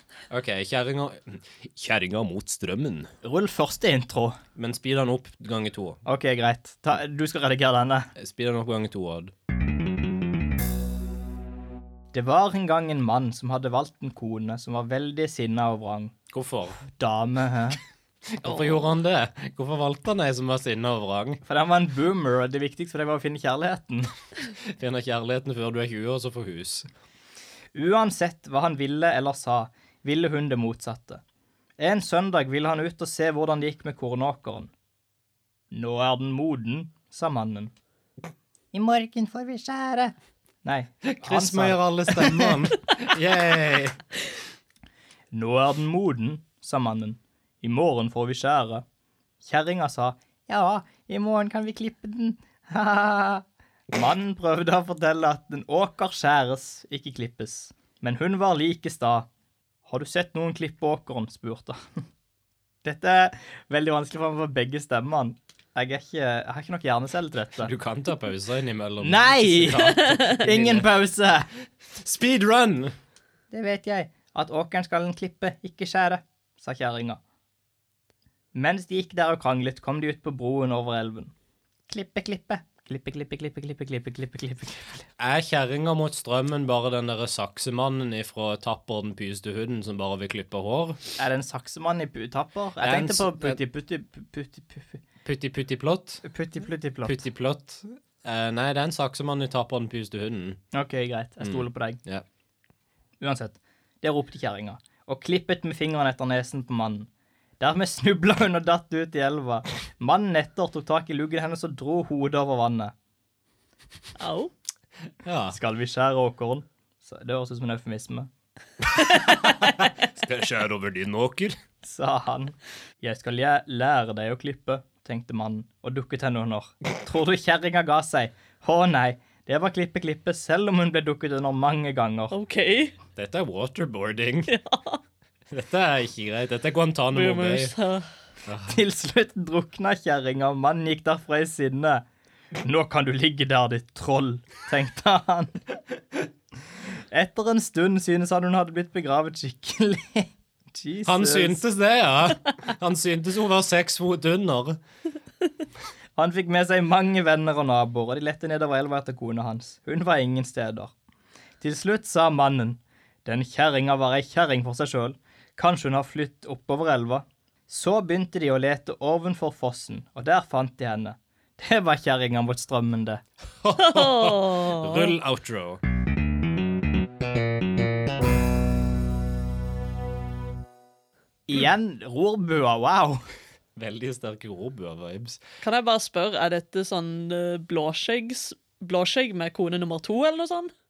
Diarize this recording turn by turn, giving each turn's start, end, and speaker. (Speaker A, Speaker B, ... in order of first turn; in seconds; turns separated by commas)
Speaker A: 0.3-3.1, Speaker B: 3.2-4.4, Speaker A: 4.5-6.0, Speaker B: 6.0-8.1, Speaker A: 8.2-9.3, Speaker B: 12.1-16.1, Speaker A: 16.3-16.8, Speaker B: 16.9-17.8, Speaker A: 18.3-21.4, Speaker C: 18.5-18.8, Speaker B: 21.4-24.1, Speaker A: 24.6-26.9, Speaker B: 27.7-31.2, Speaker B: 31.8-34.7, Speaker B: 35.7-37.7, Speaker B: 38.7-42.6, Speaker A: 41.0-44.0, Speaker B: 45.3-48.8, Speaker B: 49.4-59.3, Speaker B: 59.9-62.0, Speaker B: 62.8-67.7, Speaker A: 67.6-70.9, Speaker B: 69.0-71.5, Speaker A: 72.0-72.9, Speaker B: 73.5-77.2, Speaker B: 78.5-81.3, Speaker B: 81.9-85.1, Speaker A: 85.2-91.0, Speaker B: 91.2-95.0, Speaker A: 92.8-93.6, Speaker A: 95.2-96.2, Speaker B: 96.2-97.2, Speaker A: 97.0-100.6, Speaker B: 100.7-102.0, Speaker A: 101.4-102.2, Speaker B: 103.2-107.1, Speaker B: 107.6-112.9, Speaker C: 114.2-114.5, Speaker A: 115.2-115.5, Speaker B: 115.5-118.3, Speaker A: 119.0-121.5, Speaker B: 121.8-132.3, Speaker C: 132.3-132.9, Speaker A: 133.2-134.5, Speaker C: 134.5-135.0, Speaker A: 135.5-137.7, Speaker C: 137.1-138.1, Speaker A: 138.5-138.7, Speaker B: 138.6-142.0, Speaker B: 142.6-145.6, Speaker B: 147.1-151.6, Speaker A: 151.0-154.8, Speaker B: 156.2-160.9, Speaker B: 161.6-173.2, Speaker A: 173.6-175.8, Speaker C: 173.8-175.1, Speaker B: 181.5-183.2, Speaker A: 183.8-185.4, Speaker C: 185.6-190.7